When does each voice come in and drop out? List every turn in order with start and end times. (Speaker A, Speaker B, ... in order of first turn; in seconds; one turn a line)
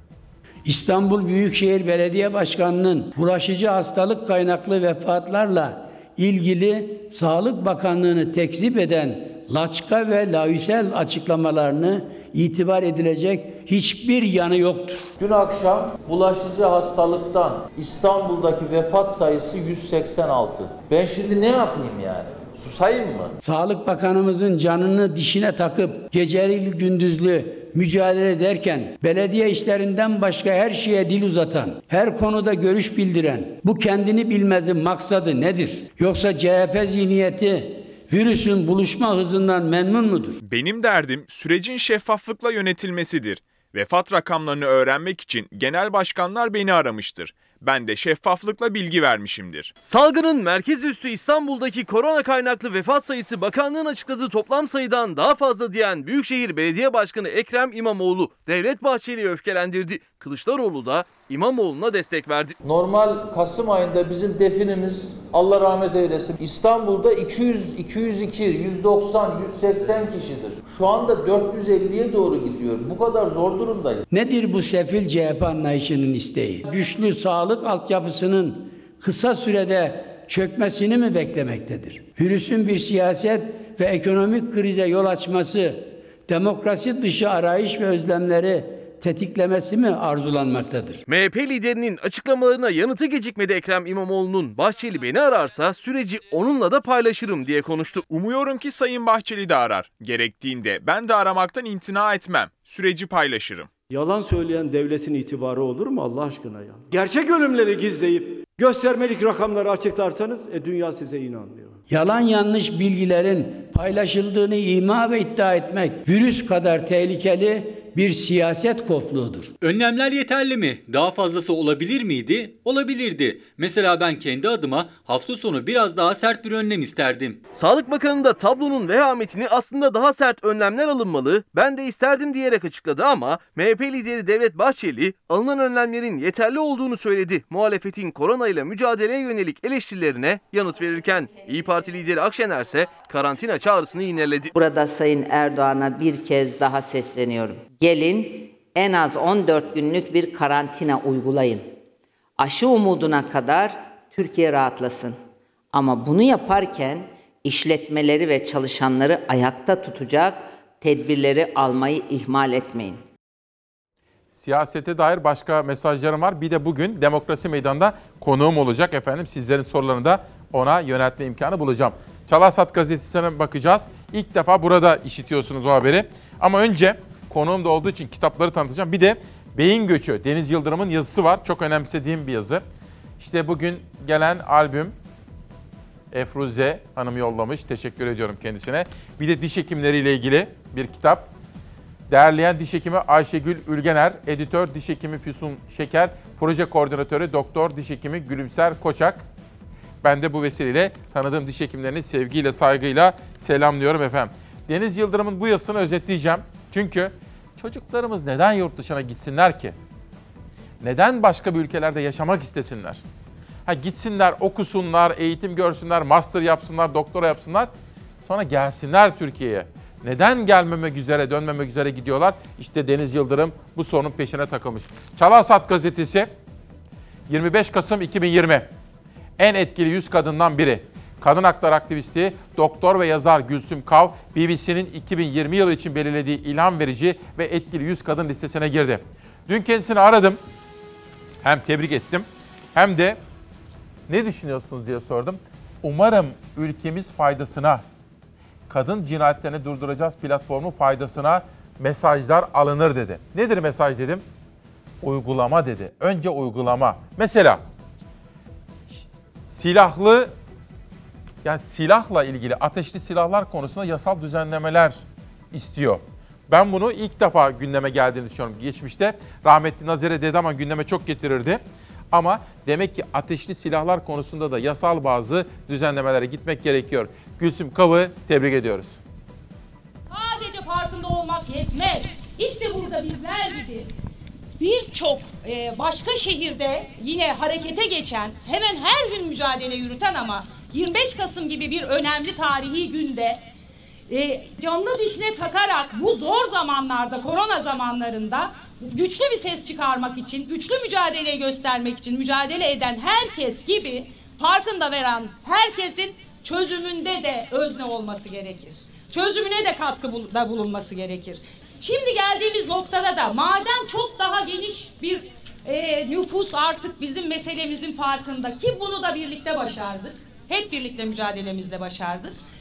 Speaker A: 0.7-15.1
Speaker B: 15.2-23.4
Speaker A: 23.4-40.4
Speaker C: 40.4-49.7
Speaker D: 49.8-62.6
Speaker B: 62.6-74.0
Speaker A: 74.1-91.0
Speaker D: 91.1-98.0
Speaker C: 98.1-103.7
Speaker E: 103.9-111.8
Speaker A: 111.9-119.5
Speaker F: 119.6-127.4
Speaker D: 127.5-144.5
Speaker G: 144.6-151.7
Speaker G: 152.4-155.2
Speaker G: 155.7-163.0
Speaker H: 164.3-182.6
Speaker H: 183.2-184.9
Speaker H: 186.1-191.3
Speaker H: 192.1-199.2
Speaker H: 200.0-209.8
Speaker H: 210.8-213.0
Speaker H: 213.7-217.7
Speaker H: 218.2-226.3
Speaker H: 227.3-228.7
Speaker H: 229.4-240.4
Speaker H: 241.4-243.2
Speaker H: 244.1-247.8
Speaker H: 248.7-254.2
Speaker H: 255.0-257.6
Speaker H: 258.9-260.3
Speaker H: 261.4-271.6
Speaker H: 272.1-279.0
Speaker I: 280.1-283.9
Speaker I: 284.6-293.4
Speaker I: 294.1-322.4